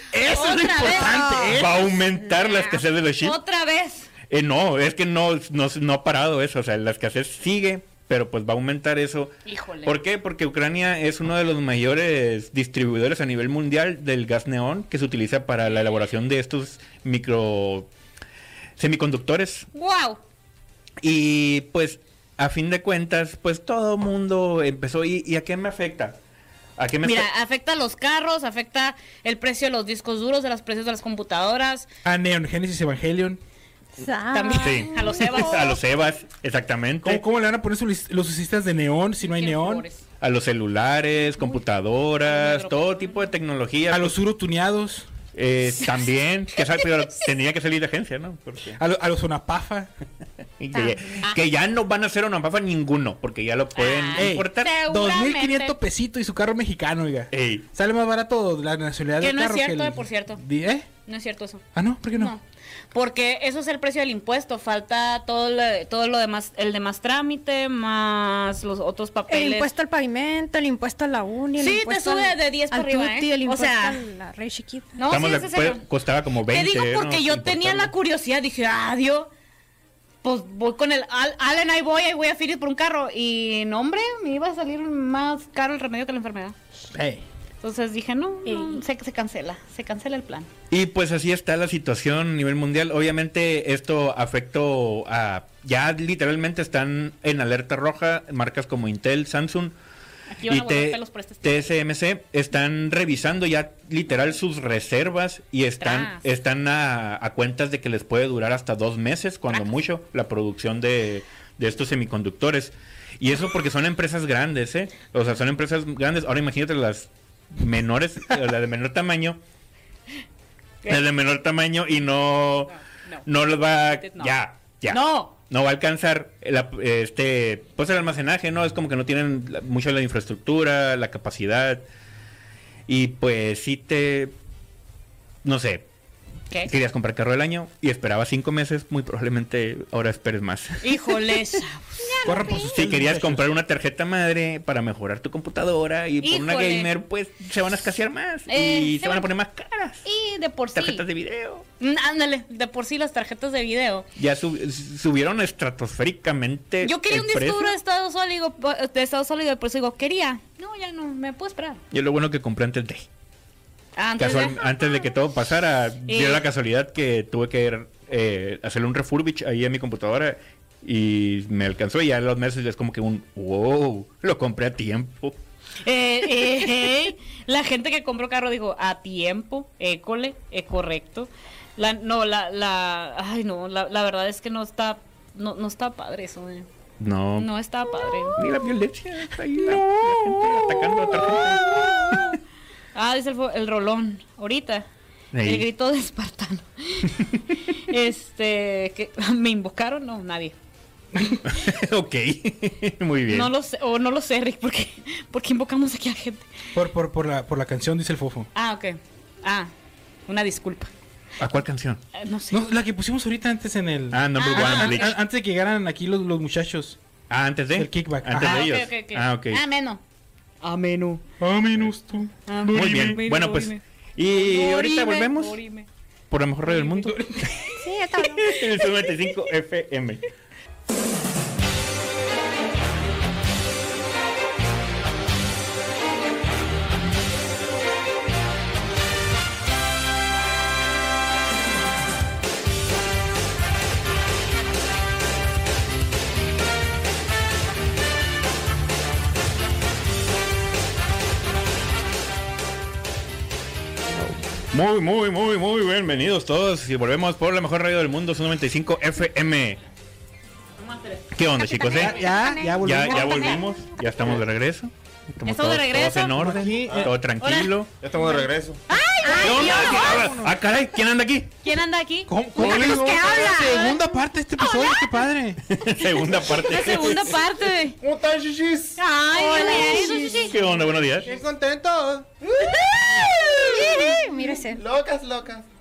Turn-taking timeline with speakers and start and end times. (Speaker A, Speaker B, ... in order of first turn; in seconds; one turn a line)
Speaker A: 0.1-2.0
Speaker B: 0.3-1.5
Speaker C: 0.8-1.5
Speaker D: 1.5-3.4
Speaker B: 2.2-4.1
Speaker D: 4.3-17.9
Speaker B: 9.4-10.0
Speaker D: 18.8-19.7
Speaker B: 19.7-20.2
Speaker D: 21.0-26.2
Speaker D: 26.8-27.3
Speaker B: 27.0-31.9
Speaker A: 32.0-33.4
Speaker C: 34.0-35.7
Speaker B: 34.3-35.8
Speaker D: 34.6-37.2
Speaker A: 37.0-39.8
Speaker B: 39.2-40.0
Speaker D: 40.2-44.2
Speaker B: 42.2-43.3
Speaker A: 43.9-45.1
Speaker D: 45.3-48.8
Speaker A: 48.8-49.9
Speaker D: 50.6-54.7
Speaker C: 50.7-51.2
Speaker B: 53.8-55.8
Speaker A: 54.1-60.9
Speaker D: 57.3-57.6
Speaker B: 59.2-60.4
Speaker B: 61.1-62.4
Speaker A: 61.7-62.3
Speaker B: 62.9-69.7
Speaker C: 69.3-75.0
Speaker B: 71.6-74.0
Speaker B: 75.0-75.8
Speaker D: 75.1-77.9
Speaker B: 76.5-79.3
Speaker B: 80.2-86.5
Speaker A: 86.9-87.2
Speaker B: 87.6-90.5
Speaker C: 88.5-88.8
Speaker D: 90.7-99.7
Speaker B: 100.3-101.7
Speaker D: 100.5-119.4
Speaker B: 105.8-106.2
Speaker D: 120.8-122.7
Speaker B: 122.7-123.2
Speaker D: 123.2-131.8
Speaker B: 123.8-124.3
Speaker B: 124.9-125.3
Speaker D: 132.9-134.3
Speaker D: 135.4-135.8
Speaker D: 136.7-141.1
Speaker B: 140.8-142.2
Speaker C: 142.0-142.8
Speaker A: 142.2-143.4
Speaker D: 142.6-150.0
Speaker B: 146.2-146.9
Speaker B: 148.5-149.3
Speaker B: 150.0-151.0
Speaker D: 150.7-151.6
Speaker B: 151.8-154.1
Speaker D: 154.2-157.8
Speaker B: 156.8-161.8
Speaker D: 161.9-163.1
Speaker B: 164.0-164.6
Speaker D: 164.2-175.4
Speaker B: 166.1-166.4
Speaker B: 175.8-186.7
Speaker D: 187.0-187.5
Speaker B: 187.4-188.4
Speaker D: 188.3-192.2
Speaker B: 191.8-192.3
Speaker B: 192.9-194.8
Speaker D: 195.3-195.7
Speaker B: 195.4-200.5
Speaker D: 201.4-203.5
Speaker B: 203.3-206.4
Speaker A: 206.7-208.5
Speaker B: 208.5-209.7
Speaker B: 210.3-210.9
Speaker D: 211.4-212.0
Speaker B: 212.1-212.6
Speaker A: 212.5-217.0
Speaker D: 214.1-215.2
Speaker B: 214.4-215.2
Speaker D: 217.3-219.6
Speaker A: 217.7-218.7
Speaker B: 218.4-220.0
Speaker B: 220.6-221.2
Speaker A: 221.4-223.2
Speaker B: 222.5-225.9
Speaker D: 222.7-225.6
Speaker D: 226.3-227.7
Speaker B: 226.7-227.1
Speaker A: 227.1-227.6
Speaker C: 227.8-228.6
Speaker D: 228.2-230.2
Speaker D: 254.2-259.8
Speaker B: 260.8-261.3
Speaker D: 261.3-262.2
Speaker C: 261.6-263.6
Speaker A: 261.9-263.6
Speaker D: 262.8-267.9
Speaker B: 265.4-267.7
Speaker A: 266.4-267.0
Speaker E: 266.9-267.1
Speaker E: 268.0-268.8
Speaker B: 268.9-270.1
Speaker C: 269.2-270.3
Speaker D: 269.4-271.5
Speaker A: 269.9-270.5
Speaker B: 271.6-272.7
Speaker A: 272.3-275.6
Speaker C: 272.6-275.1
Speaker D: 275.7-277.4
Speaker B: 276.4-278.0
Speaker E: 278.0-279.0
Speaker B: 279.0-280.6
Speaker C: 279.1-280.7
Speaker D: 280.1-281.3
Speaker A: 281.2-282.3
Speaker E: 282.4-284.0
Speaker B: 282.7-284.1
Speaker C: 283.5-284.8
Speaker E: 284.7-285.7